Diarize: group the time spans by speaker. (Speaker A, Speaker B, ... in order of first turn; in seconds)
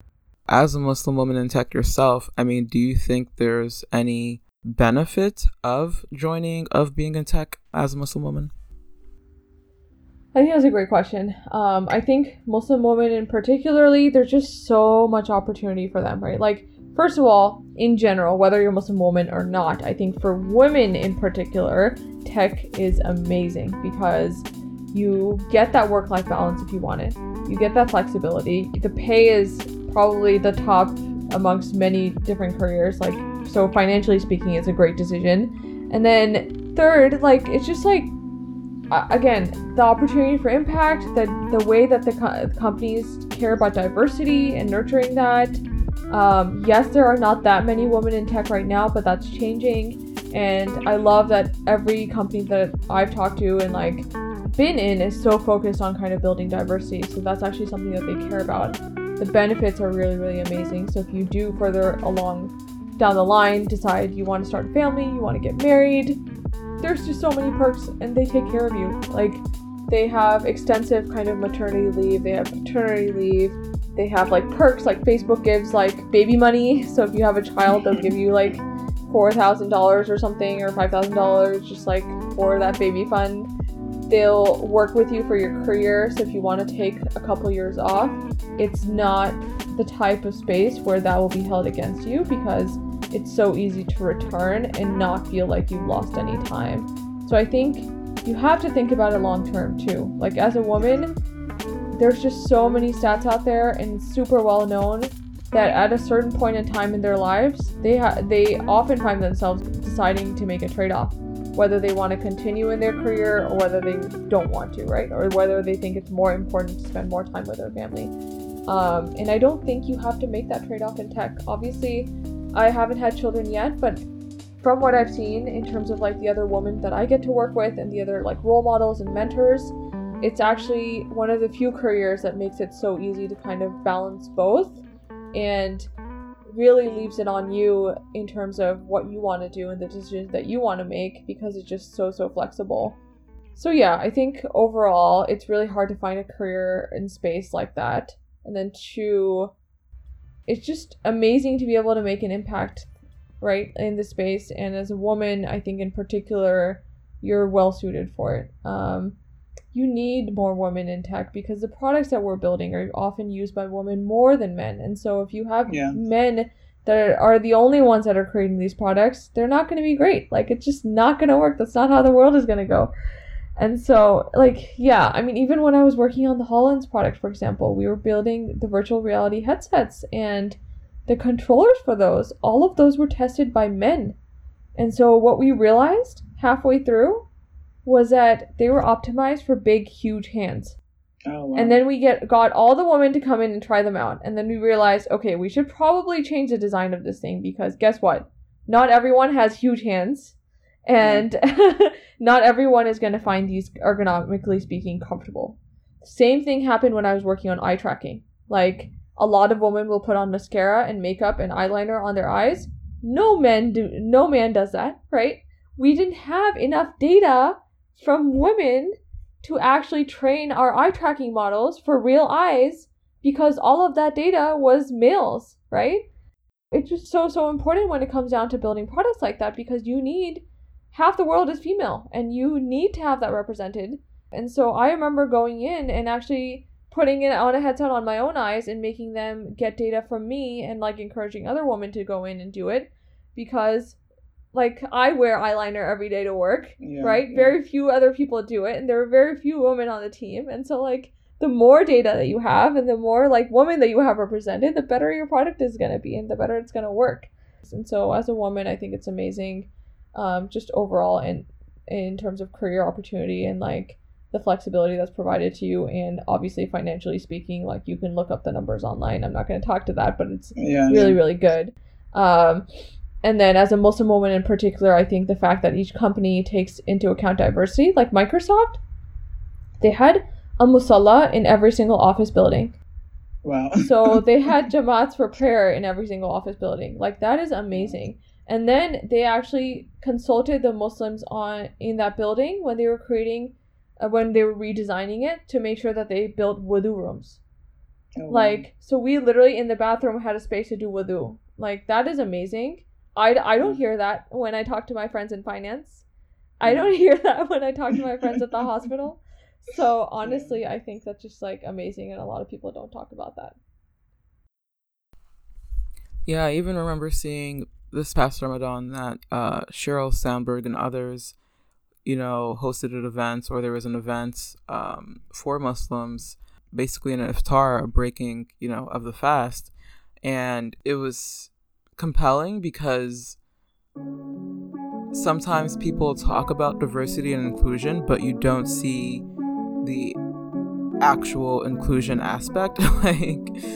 Speaker A: 0.5-8.5, 316.2-321.4, 322.1-333.4, 335.1-339.2, 339.8-340.2, 341.0-343.5
Speaker B: 10.3-38.1, 38.9-66.2, 66.8-83.5, 84.1-101.2, 101.9-118.1, 118.7-124.0, 124.6-134.8, 135.3-135.9, 136.5-143.0, 143.6-149.5, 150.5-152.9, 153.4-159.2, 159.7-172.9, 173.6-184.2, 184.8-187.3, 187.8-190.8, 191.6-200.3, 200.9-226.1, 226.7-244.0, 244.5-272.7, 273.2-278.8, 279.8-282.8, 283.8-297.4, 298.3-306.1, 306.6-313.6
Speaker C: 165.7-166.0, 191.2-191.8, 201.0-201.2, 246.8-247.5, 270.6-271.2, 283.4-284.2, 298.2-298.6, 306.6-306.9, 308.2-308.6, 310.2-310.6